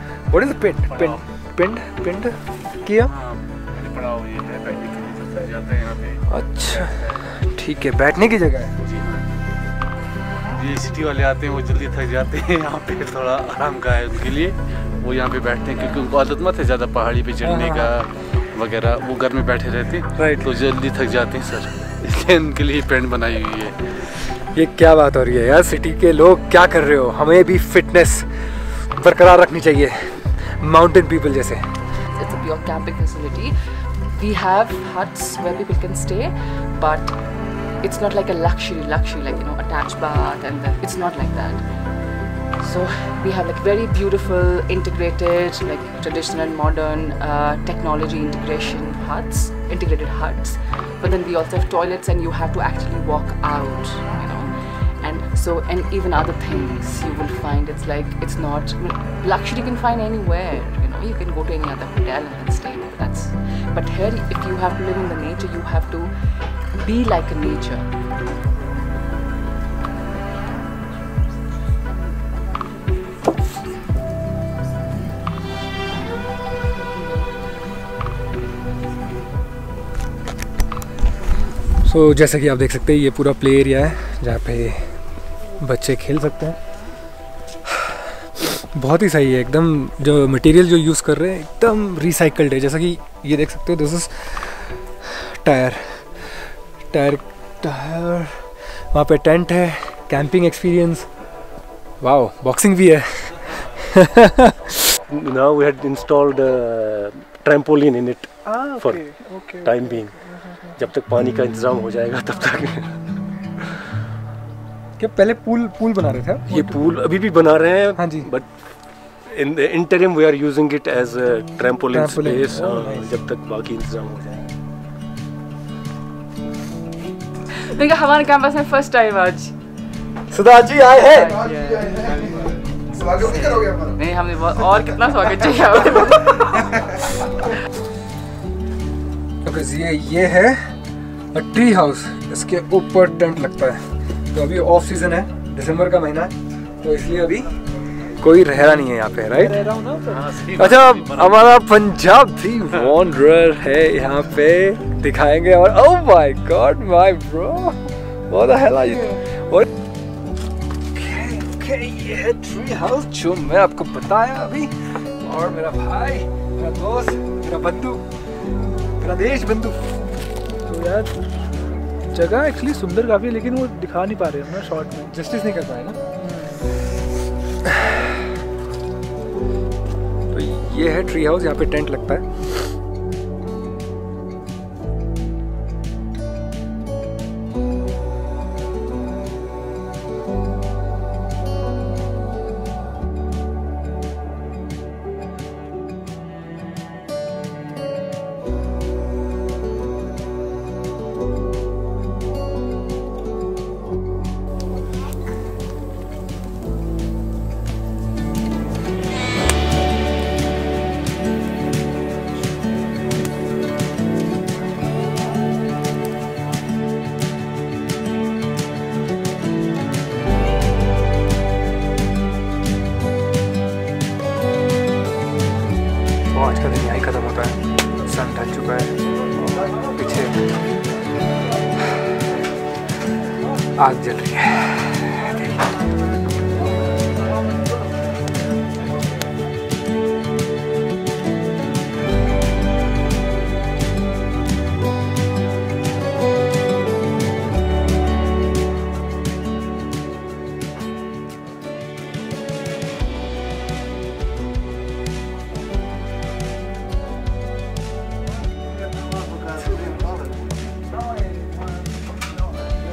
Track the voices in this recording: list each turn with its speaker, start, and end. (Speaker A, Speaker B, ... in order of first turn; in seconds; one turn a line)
Speaker A: 0.3-3.1
Speaker B: 0.9-1.2
Speaker B: 3.0-7.3
Speaker A: 6.3-8.7
Speaker B: 8.8-9.3
Speaker B: 10.5-23.9
Speaker A: 17.4-17.9
Speaker A: 20.1-20.5
Speaker A: 24.5-31.6
Speaker C: 32.0-33.5
Speaker C: 34.1-37.1
Speaker C: 37.8-41.6
Speaker C: 42.6-66.1
Speaker C: 66.8-67.9
Speaker A: 81.8-85.0
Speaker A: 85.6-86.6
Speaker A: 87.7-96.3
Speaker A: 96.9-101.1
Speaker A: 102.0-104.9
Speaker D: 105.1-109.0
Speaker E: 108.4-110.8
Speaker D: 109.6-110.2
Speaker D: 110.8-113.2
Speaker A: 115.0-116.8
Speaker D: 116.5-124.5
Speaker A: 118.0-118.3
Speaker A: 121.9-123.1
Speaker C: 127.5-129.5
Speaker A: 130.3-131.4
Speaker C: 130.9-137.0
Speaker A: 139.4-140.7
Speaker A: 141.3-147.5
Speaker A: 148.2-149.6
Speaker E: 149.3-150.3
Speaker B: 150.0-151.4
Speaker A: 150.5-159.7
Speaker A: 160.9-168.0
Speaker A: 169.0-170.2
Speaker E: 170.7-171.2
Speaker E: 172.1-175.1
Speaker A: 175.0-176.0
Speaker E: 176.2-176.5
Speaker A: 177.7-178.0
Speaker A: 180.3-182.6
Speaker A: 226.3-228.9
Speaker A: 229.8-230.4
Speaker A: 233.7-235.5
Speaker B: 259.3-260.2